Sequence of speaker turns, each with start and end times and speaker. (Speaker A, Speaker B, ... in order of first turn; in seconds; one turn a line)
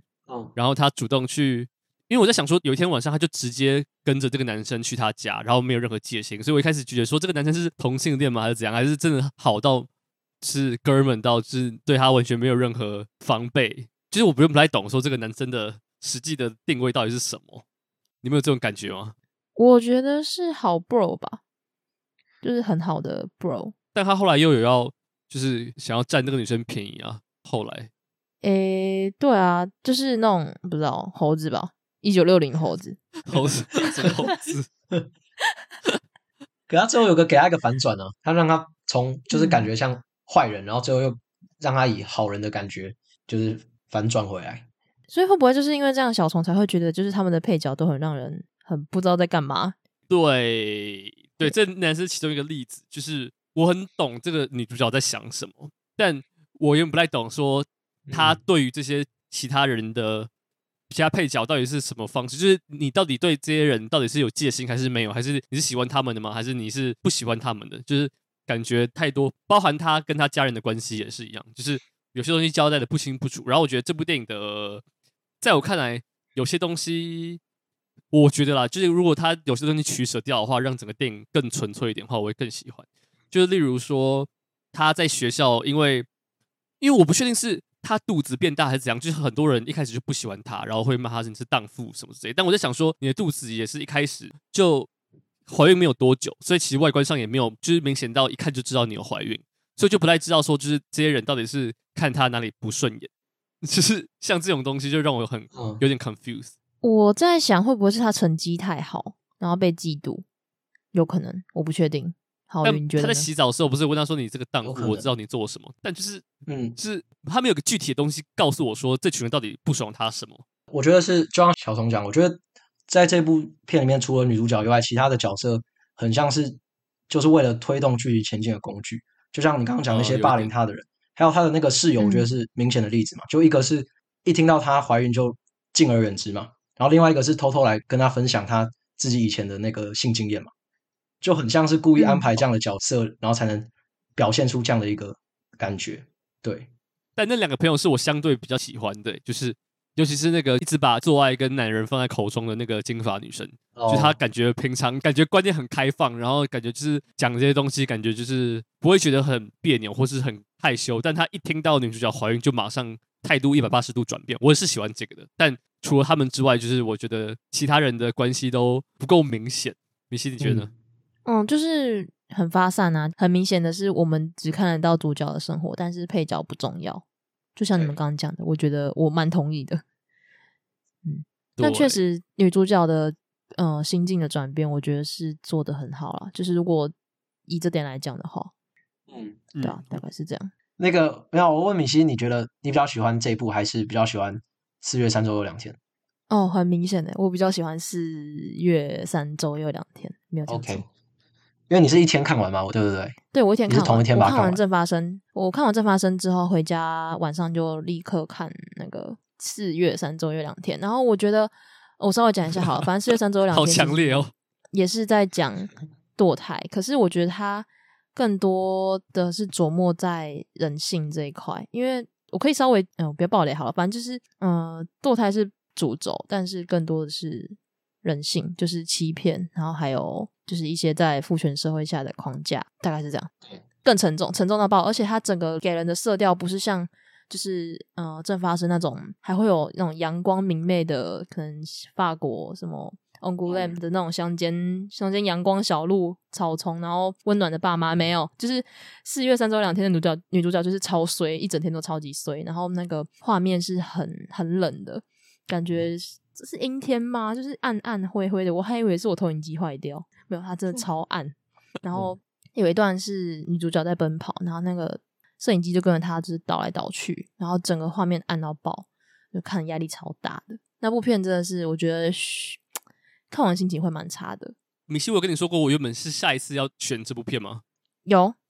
Speaker A: 0.3-0.5
Speaker B: 0.6-9.9
Speaker B: 10.4-17.6
Speaker B: 18.2-19.1
Speaker C: 19.6-21.4
Speaker C: 22.4-23.7
Speaker B: 23.9-27.9
Speaker C: 28.4-33.0
Speaker B: 33.3-34.7
Speaker A: 36.7-44.6
Speaker C: 39.3-39.7
Speaker C: 45.1-49.8
Speaker B: 50.1-60.3
Speaker A: 58.1-58.4
Speaker B: 60.9-74.8
Speaker B: 75.4-77.4
Speaker B: 78.1-86.1
Speaker B: 86.8-94.9
Speaker B: 95.5-103.1
Speaker B: 103.6-106.5
Speaker A: 105.5-105.8
Speaker C: 106.8-110.2
Speaker C: 110.9-113.3
Speaker B: 112.6-116.2
Speaker A: 114.6-115.1
Speaker A: 116.5-116.8
Speaker B: 116.8-120.4
Speaker A: 120.7-140.5
Speaker B: 129.9-130.5
Speaker C: 132.0-132.3
Speaker A: 141.2-146.7
Speaker C: 142.0-142.3
Speaker B: 147.2-170.7
Speaker A: 153.7-154.2
Speaker A: 170.4-170.7
Speaker C: 171.2-177.0
Speaker C: 177.6-179.8
Speaker C: 181.0-186.9
Speaker B: 181.6-182.0
Speaker C: 187.5-188.5
Speaker A: 189.1-189.4
Speaker B: 189.5-189.9
Speaker C: 189.6-190.5
Speaker A: 190.8-195.8
Speaker C: 196.3-200.8
Speaker A: 200.5-200.8
Speaker A: 201.7-203.2
Speaker C: 203.3-233.3
Speaker A: 203.7-204.6
Speaker B: 213.5-214.3
Speaker C: 233.8-272.6
Speaker A: 243.5-243.8
Speaker C: 273.3-274.5
Speaker B: 274.9-277.6
Speaker C: 278.1-278.4